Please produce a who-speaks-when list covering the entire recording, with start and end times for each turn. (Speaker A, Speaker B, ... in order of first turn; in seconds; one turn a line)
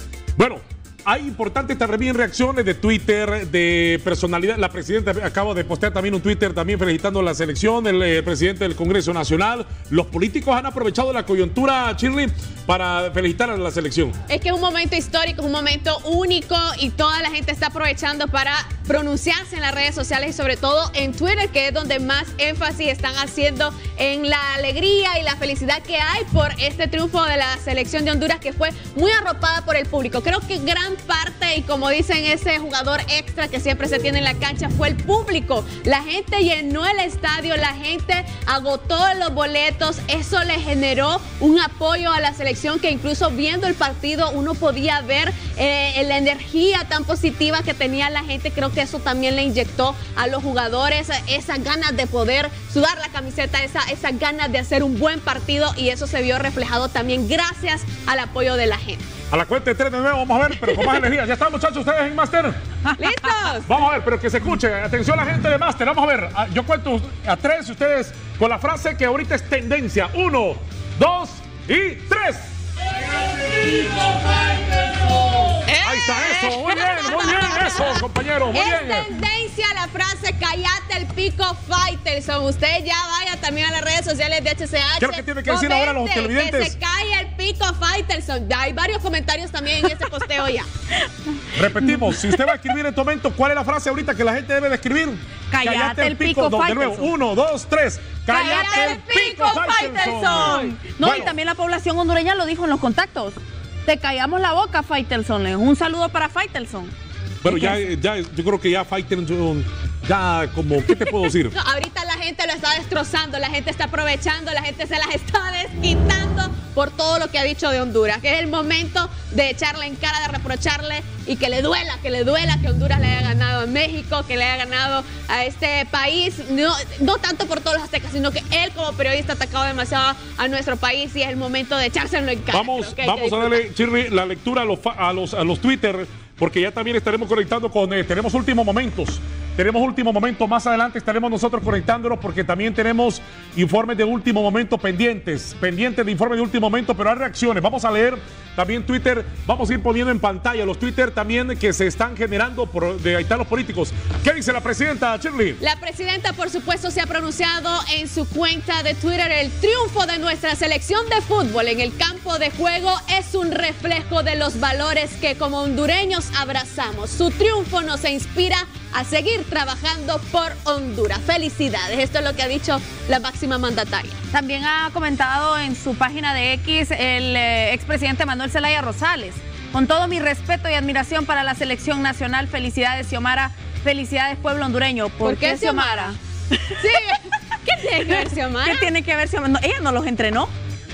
Speaker A: 0.4-14.1
Speaker B: 14.3-59.1
Speaker A: 59.3-62.6
Speaker C: 62.9-63.3
Speaker B: 63.0-63.7
Speaker A: 63.6-72.5
Speaker B: 75.7-78.0
Speaker A: 75.8-79.1
Speaker B: 78.5-90.7
Speaker A: 85.0-86.7
Speaker A: 91.5-101.3
Speaker C: 91.7-92.5
Speaker C: 95.5-97.1
Speaker C: 98.3-106.9
Speaker B: 98.3-100.7
Speaker A: 107.4-111.5
Speaker C: 107.5-107.9
Speaker B: 111.5-133.6
Speaker A: 132.5-155.6
Speaker B: 155.6-174.2
Speaker C: 174.3-186.2
Speaker B: 185.2-186.1
Speaker B: 186.8-188.9
Speaker C: 188.1-190.5